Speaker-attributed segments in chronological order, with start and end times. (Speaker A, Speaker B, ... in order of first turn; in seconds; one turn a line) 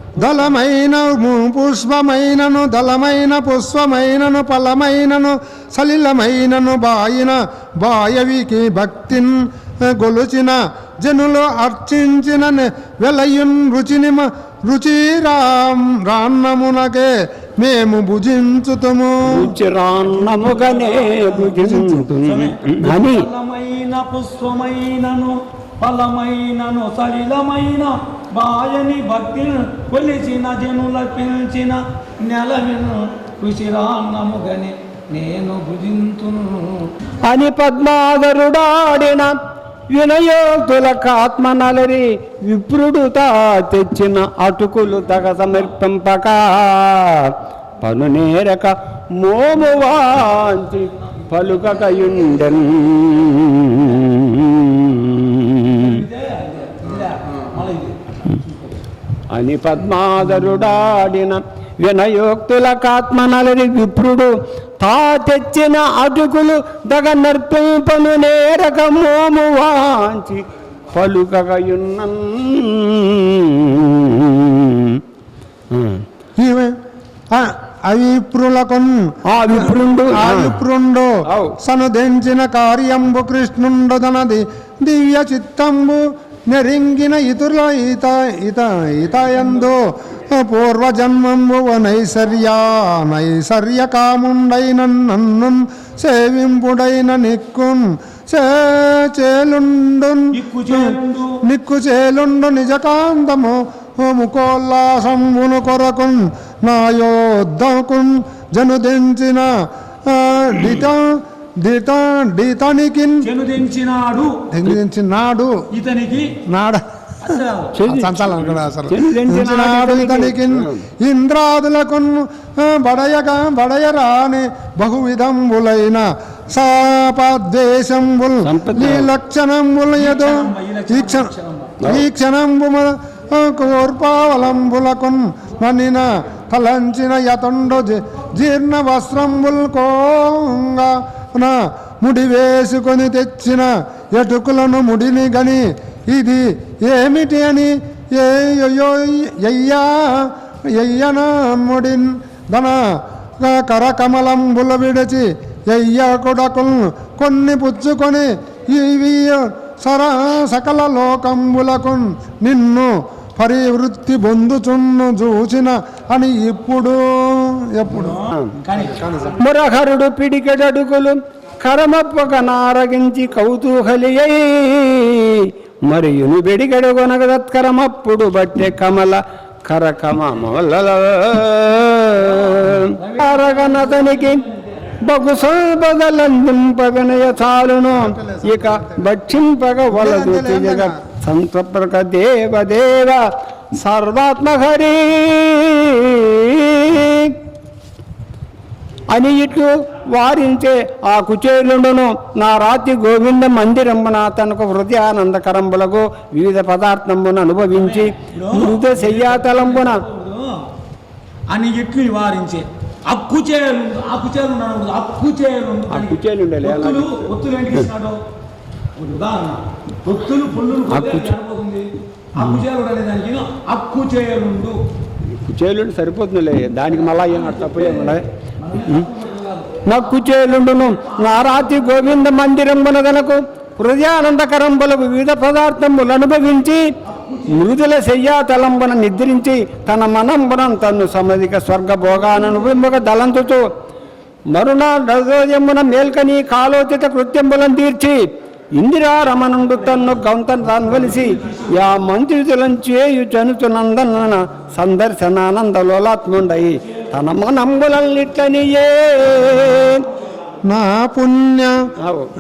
Speaker A: 0.2-19.5
Speaker B: 19.2-23.2
Speaker C: 20.1-21.5
Speaker A: 21.5-22.1
Speaker C: 22.2-36.9
Speaker B: 37.2-39.3
Speaker B: 39.9-56.0
Speaker C: 55.8-58.8
Speaker B: 59.3-75.0
Speaker B: 75.7-76.0
Speaker A: 76.4-76.8
Speaker A: 77.3-109.5
Speaker B: 79.2-80.6
Speaker B: 81.2-81.6
Speaker C: 100.3-101.4
Speaker A: 110.1-113.3
Speaker C: 113.2-114.4
Speaker A: 114.5-115.5
Speaker C: 115.7-116.3
Speaker A: 116.5-131.3
Speaker C: 117.2-117.8
Speaker B: 117.8-120.8
Speaker B: 128.4-129.1
Speaker C: 130.0-131.8
Speaker A: 131.8-152.8
Speaker A: 153.4-168.2
Speaker C: 168.0-169.0
Speaker B: 168.3-168.6
Speaker A: 168.7-169.4
Speaker B: 169.4-184.4
Speaker C: 183.1-184.0
Speaker B: 185.0-193.2
Speaker A: 187.9-189.0
Speaker A: 189.9-191.0
Speaker B: 193.8-197.4
Speaker B: 199.1-210.0
Speaker C: 207.8-210.6
Speaker C: 211.5-218.2
Speaker B: 215.9-217.3
Speaker C: 218.9-224.8
Speaker B: 220.9-221.3
Speaker B: 225.3-228.2
Speaker C: 228.6-229.8
Speaker B: 229.8-236.8
Speaker C: 237.1-237.5
Speaker B: 237.4-243.7
Speaker B: 244.5-248.2
Speaker B: 248.8-260.0
Speaker A: 260.7-261.7
Speaker B: 262.0-262.3